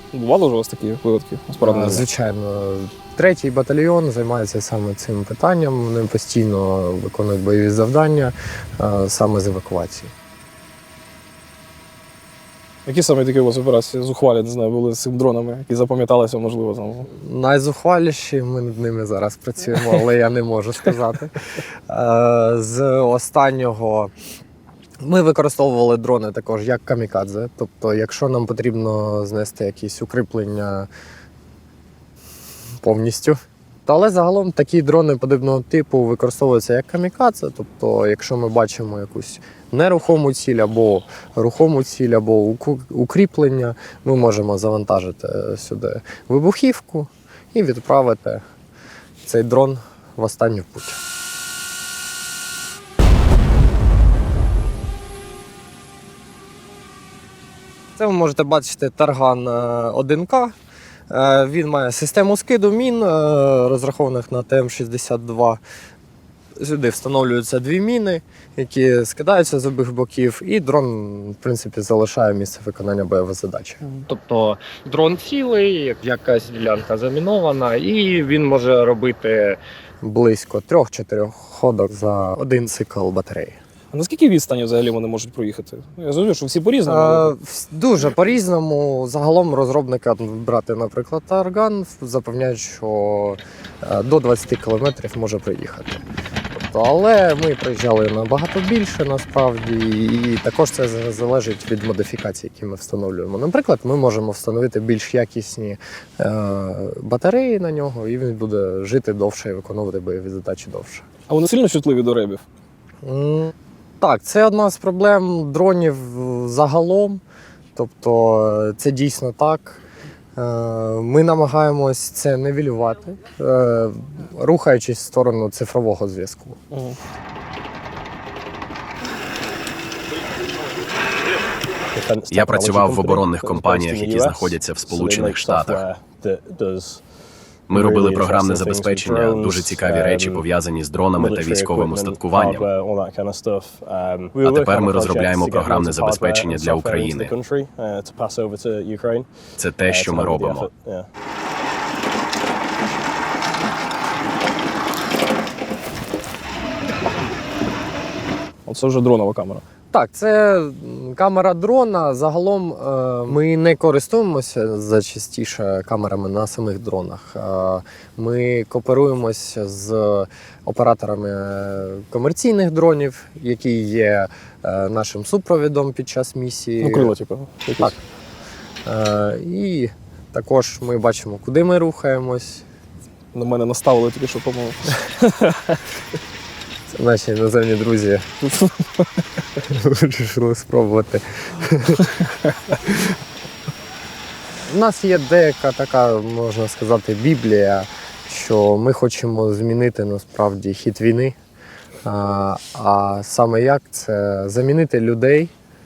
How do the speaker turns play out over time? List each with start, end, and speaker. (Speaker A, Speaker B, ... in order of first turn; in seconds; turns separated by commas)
Speaker A: 0.1-2.0, Speaker B: 1.6-10.1, Speaker A: 12.9-17.1, Speaker B: 17.1-21.4, Speaker B: 21.9-24.1, Speaker B: 25.0-30.9, Speaker B: 32.8-48.4, Speaker B: 49.2-51.0, Speaker B: 58.0-60.5, Speaker B: 61.1-65.6, Speaker B: 66.6-83.6, Speaker A: 83.9-87.3, Speaker B: 86.8-96.0, Speaker B: 96.5-111.0, Speaker A: 111.3-112.4, Speaker B: 113.0-117.2, Speaker B: 117.8-119.8, Speaker B: 120.4-126.6, Speaker C: 131.9-137.0, Speaker D: 132.3-135.9, Speaker D: 137.7-142.7, Speaker C: 137.7-140.5, Speaker C: 141.2-149.3, Speaker D: 144.4-147.4, Speaker D: 149.6-150.7, Speaker C: 149.8-151.1, Speaker A: 158.7-159.6, Speaker B: 159.9-177.1, Speaker A: 176.8-177.9, Speaker B: 178.9-182.7, Speaker A: 183.3-185.8, Speaker B: 186.9-188.2, Speaker B: 189.6-192.1, Speaker B: 194.7-201.4, Speaker B: 202.0-205.5